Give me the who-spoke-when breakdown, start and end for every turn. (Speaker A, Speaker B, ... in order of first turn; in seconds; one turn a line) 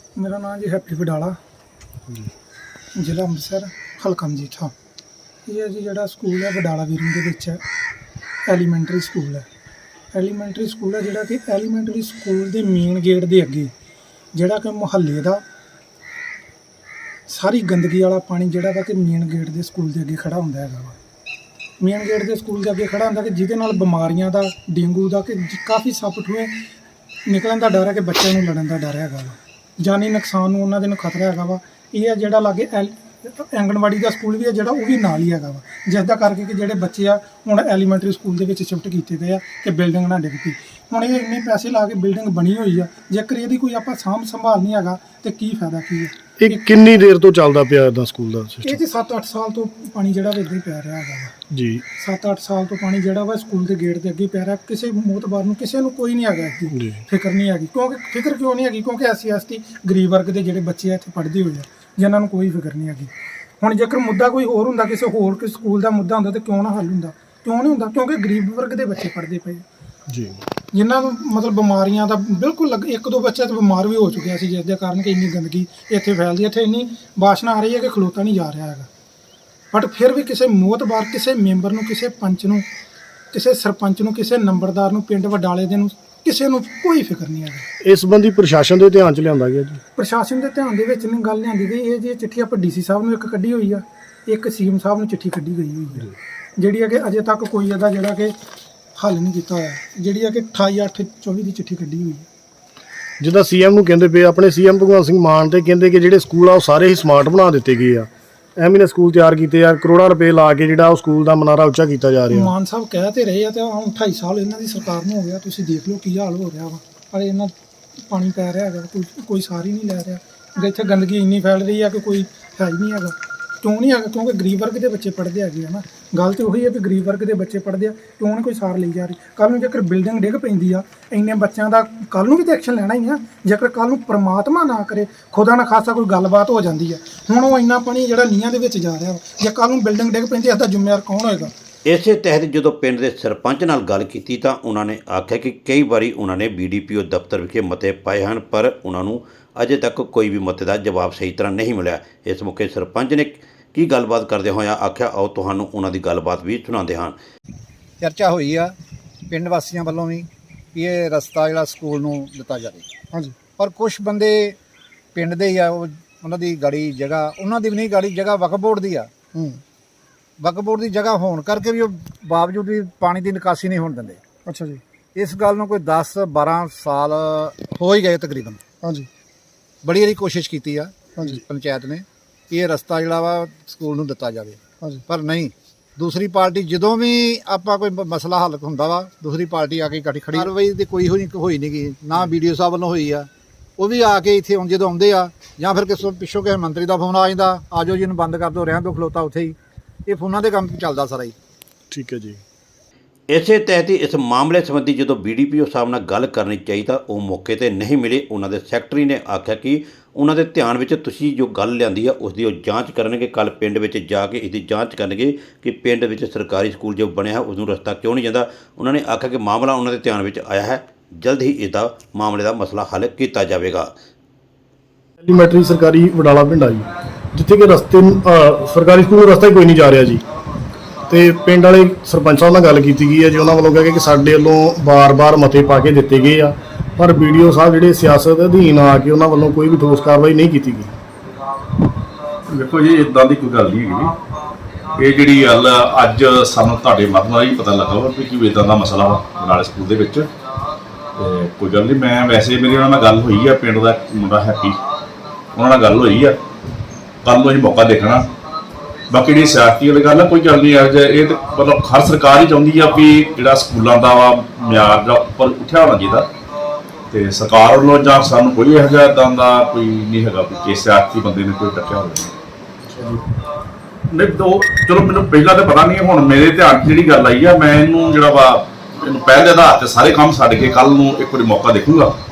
Speaker A: 0.2-1.4
Speaker A: 3.0-4.7
Speaker A: 5.5-7.6
Speaker A: 8.5-9.4
Speaker A: 10.1-13.7
Speaker A: 14.3-15.4
Speaker A: 17.3-21.0
Speaker A: 21.8-26.6
Speaker A: 27.3-46.6
Speaker B: 46.4-48.8
Speaker A: 48.6-51.4
Speaker B: 51.5-51.8
Speaker A: 52.0-69.6
Speaker B: 56.7-57.0
Speaker B: 70.1-70.4
Speaker A: 70.7-78.9
Speaker A: 79.7-82.7
Speaker A: 83.3-87.7
Speaker B: 87.8-89.8
Speaker A: 90.0-98.4
Speaker A: 99.0-102.3
Speaker B: 103.2-112.5
Speaker A: 112.3-117.5
Speaker A: 118.1-141.5
Speaker C: 141.9-157.2
Speaker D: 158.0-158.7
Speaker D: 159.3-162.9
Speaker D: 163.6-164.6
Speaker D: 165.2-169.1
Speaker A: 169.3-169.6
Speaker D: 170.4-174.2
Speaker A: 174.5-174.8
Speaker D: 175.2-178.6
Speaker D: 179.8-199.6
Speaker D: 200.1-201.3
Speaker B: 201.9-202.4
Speaker C: 203.3-223.9
Speaker B: 225.2-230.2
Speaker B: 231.1-240.9
Speaker E: 242.5-244.2
Speaker E: 245.0-250.3
Speaker E: 251.2-254.8
Speaker E: 255.5-256.4
Speaker E: 257.2-258.3
Speaker E: 259.1-266.3
Speaker E: 267.1-272.3
Speaker B: 272.9-273.2
Speaker E: 274.1-282.1